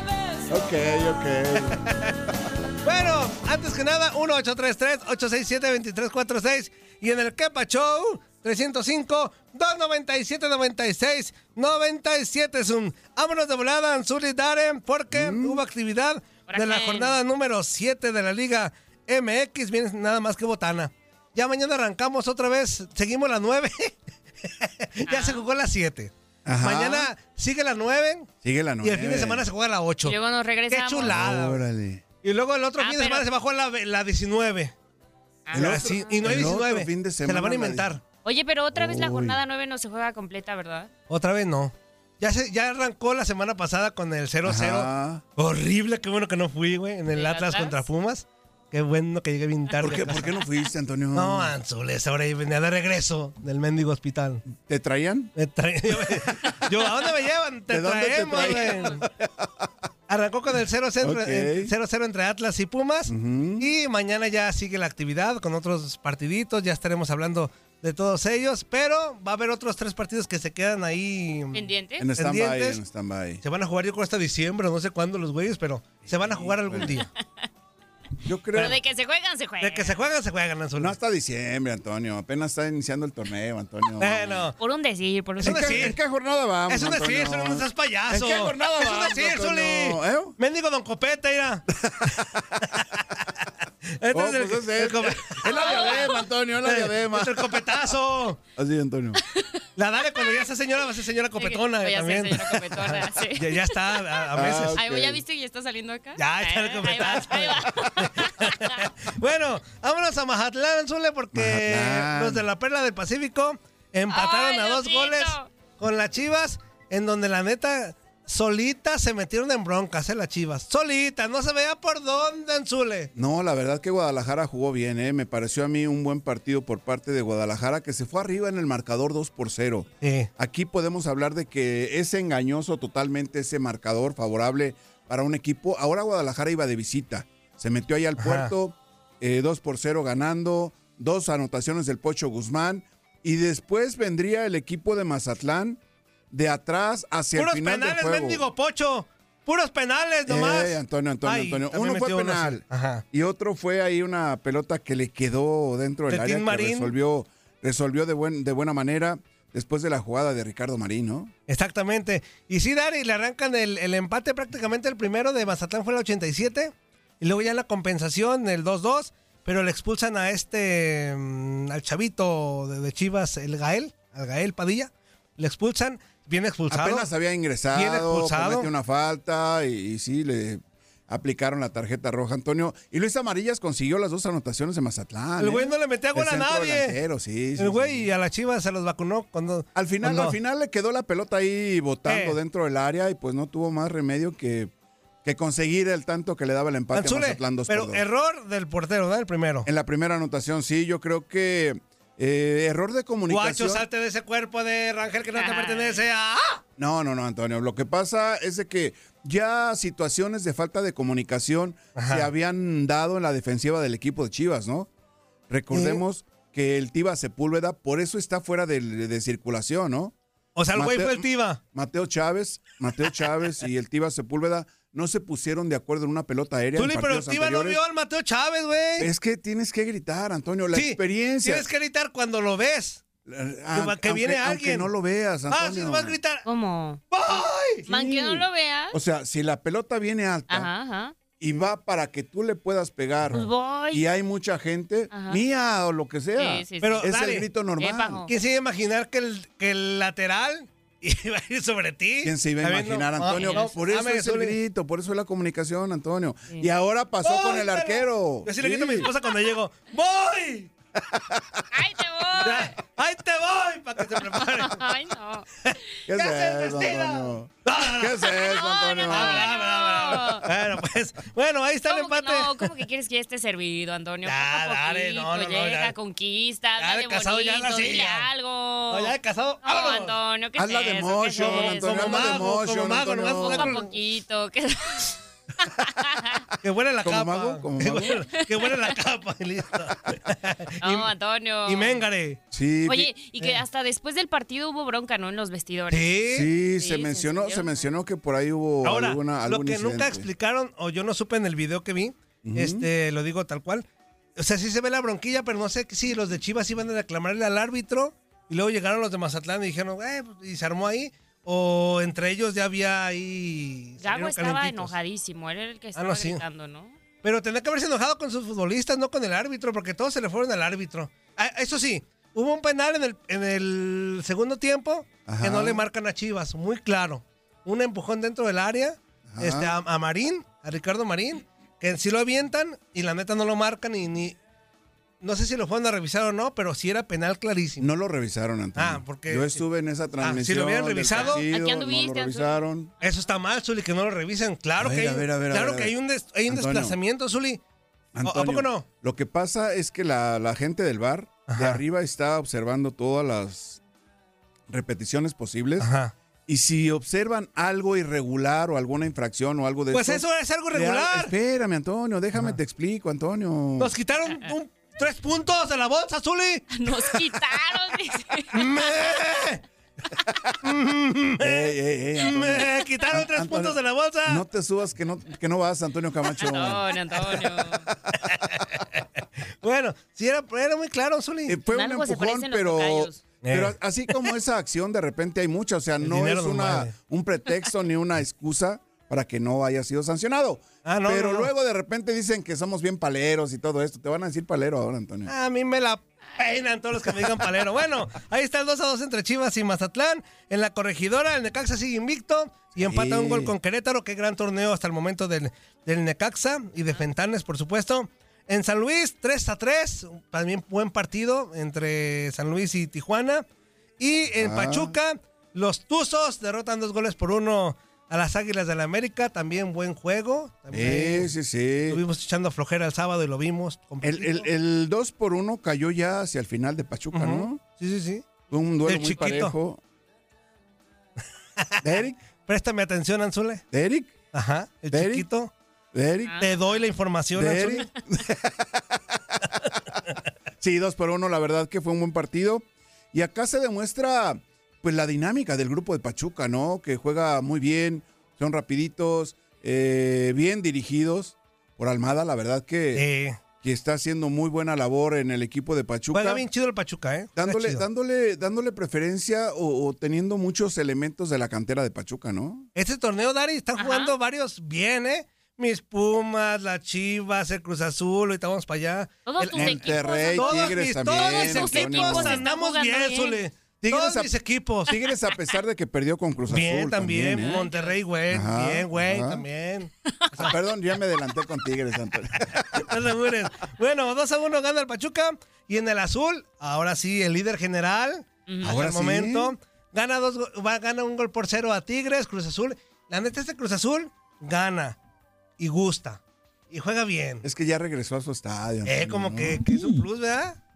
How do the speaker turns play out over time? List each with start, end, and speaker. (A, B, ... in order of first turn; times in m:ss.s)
0:00.5-0:01.9 A
0:01.8-0:02.1 B
0:02.8-0:28.3 B
0:15.1-0:15.6 A
0:16.5-0:17.2 C
0:25.1-0:25.4 C
0:26.5-0:27.1 A
0:28.4-0:29.5 A
0:28.8-0:30.2 B
0:30.0-0:31.1 C
0:30.7-0:31.6 B
0:31.0-0:32.0 A
0:32.2-0:34.7 B
0:32.8-0:33.3 C
0:35.5-0:36.5 C
0:35.5-0:38.0 A
0:35.5-0:38.0 B
0:38.2-0:40.9 C
0:38.7-0:39.4 A
0:41.1-0:50.4 B
0:44.4-0:45.2 A
0:47.1-0:47.8 C
0:49.8-0:51.5 A
0:51.1-0:54.4 B
0:54.5-0:55.3 A
0:55.4-0:59.1 B
0:57.7-0:59.7 A
1:00.1-1:11.6 B
1:01.0-1:01.7 A
1:03.1-1:03.7 A
1:11.5-1:12.0 C
1:12.0-1:13.4 A
1:12.2-1:12.8 B
1:13.4-1:17.1 B
1:16.1-1:17.0 A
1:18.2-1:18.8 A
1:18.6-1:20.0 C
1:19.6-1:21.0 B
1:20.8-1:24.5 A
1:24.0-1:24.6 B
1:24.6-1:26.0 C
1:25.4-1:30.4 A
1:25.4-1:26.0 B
1:26.7-1:31.7 B
1:31.8-1:32.6 A
1:32.2-1:33.2 B
1:34.0-1:36.1 B
1:34.1-1:37.8 A
1:35.5-1:36.2 C
1:36.6-1:38.4 B
1:38.6-1:39.2 A
1:39.3-1:39.6 C
1:39.8-1:44.8 B
1:41.4-1:48.9 C
1:44.3-1:45.2 A
1:46.2-2:03.1 B
1:51.3-1:52.5 A
1:54.1-1:55.5 C
2:03.2-2:25.8 A
2:10.0-2:10.3 B
2:18.2-2:18.5 B
2:26.3-2:28.4 A
2:27.4-2:33.0 B
2:30.3-2:41.3 A
2:36.1-2:36.9 B
2:41.5-2:57.1 B
2:56.7-3:08.1 A
2:57.7-2:58.7 B
3:05.4-3:07.0 B
3:07.6-3:10.4 B
3:09.8-3:14.7 A
3:12.1-3:12.4 B
3:15.2-3:18.0 A
3:16.9-3:19.7 B
3:19.6-3:23.9 A
3:23.3-3:26.6 B
3:25.4-3:26.0 C
3:26.8-3:34.9 A
3:32.0-3:32.3 B
3:35.5-3:40.1 A
3:35.7-3:36.0 B
3:40.6-3:41.6 B
3:40.7-3:47.8 A
3:46.8-3:49.1 B
3:49.0-3:51.7 A
3:50.7-3:53.0 B
3:53.3-3:56.2 A
3:53.7-3:54.9 B
3:55.5-3:56.4 B
3:56.4-3:57.0 C
3:57.1-3:57.8 B
3:57.9-3:59.0 C
3:57.9-4:00.7 A
4:00.5-4:01.2 C
4:01.4-4:08.2 A
4:03.3-4:04.0 C
4:05.1-4:05.4 C
4:06.4-4:07.0 C
4:06.8-4:07.5 B
4:07.8-4:08.3 C
4:08.3-4:14.6 B
4:12.2-4:19.1 A
4:13.4-4:13.7 C
4:17.2-4:20.7 B
4:21.1-4:21.6 A
4:21.7-4:22.7 C
4:22.4-4:24.8 B
4:24.3-4:25.5 C
4:25.7-4:28.3 B
4:26.1-4:29.5 A
4:28.2-4:30.5 C
4:29.1-4:32.7 B
4:31.9-4:42.5 C
4:34.2-4:35.9 B
4:36.8-4:38.3 B
4:38.9-4:40.1 B
4:40.6-4:43.8 A
4:41.4-4:43.9 B
4:43.4-4:45.2 C
4:45.7-4:46.4 C
4:46.6-4:51.1 B
4:47.0-4:48.2 A
4:50.8-4:52.0 C
4:51.7-4:52.4 B
4:52.5-4:53.1 A
4:52.9-4:56.2 C
4:55.9-4:56.5 B
4:56.3-5:00.3 A
4:56.8-4:57.8 C
4:58.8-5:14.9 B
5:02.4-5:02.9 A
5:14.0-5:17.0 C
5:16.0-5:16.4 B
5:17.2-5:34.4 B
5:25.3-5:25.8 A
5:29.3-5:29.7 A
5:35.2-5:37.9 B
5:37.8-5:42.9 A
5:38.8-5:39.6 B
5:40.2-5:41.4 B
5:41.1-5:42.6 C
5:43.0-5:47.6 B
5:44.8-5:46.0 A
5:46.5-5:47.0 A
5:48.1-5:53.8 A
5:48.2-5:48.9 B
5:51.5-5:51.8 B
5:54.7-5:55.9 A
5:55.8-5:56.1 B
5:56.5-6:03.9 A
5:59.9-6:01.3 B
6:03.8-6:07.1 B
6:06.7-6:08.8 C
6:08.5-6:09.6 B
6:10.6-6:14.4 B
6:11.4-6:18.2 A
6:16.4-6:17.9 C
6:18.2-6:21.6 B
6:21.5-6:35.3 A
6:21.7-6:23.2 C
6:23.4-6:23.8 B
6:26.0-6:26.9 B
6:30.8-6:31.5 B
6:35.3-6:53.5 B
6:42.8-6:43.5 A
6:54.0-7:01.3 B
6:54.4-6:55.0 A
7:00.7-7:02.0 A
7:01.9-7:04.5 B
7:04.0-7:07.6 A
7:07.1-7:08.3 B
7:08.5-7:09.8 A
7:08.8-7:09.5 B
7:11.6-7:13.6 B
7:11.8-7:12.2 A
7:13.7-7:14.2 A
7:14.3-7:15.5 B
7:14.9-7:15.3 A
7:15.9-7:16.4 A
7:16.3-7:16.8 C
7:16.4-7:17.9 B
7:17.4-7:19.4 A
7:20.6-7:33.0 A
7:33.0-7:33.4 B
7:33.6-7:36.4 A
7:36.1-7:37.8 B
7:37.4-7:42.7 A
7:42.8-7:54.9 B
7:43.8-7:44.1 C
7:49.3-7:53.4 C
7:49.5-7:52.4 A
7:53.8-7:54.3 A
7:54.8-7:57.7 A
7:56.5-8:00.5 B
7:57.4-7:58.0 C
7:58.3-7:59.4 A
8:00.4-8:02.9 A
8:02.5-8:15.0 B
8:08.5-8:08.7 C
8:08.6-8:09.5 A
8:15.6-8:17.5 B
8:17.4-8:20.0 A
8:18.9-8:20.6 B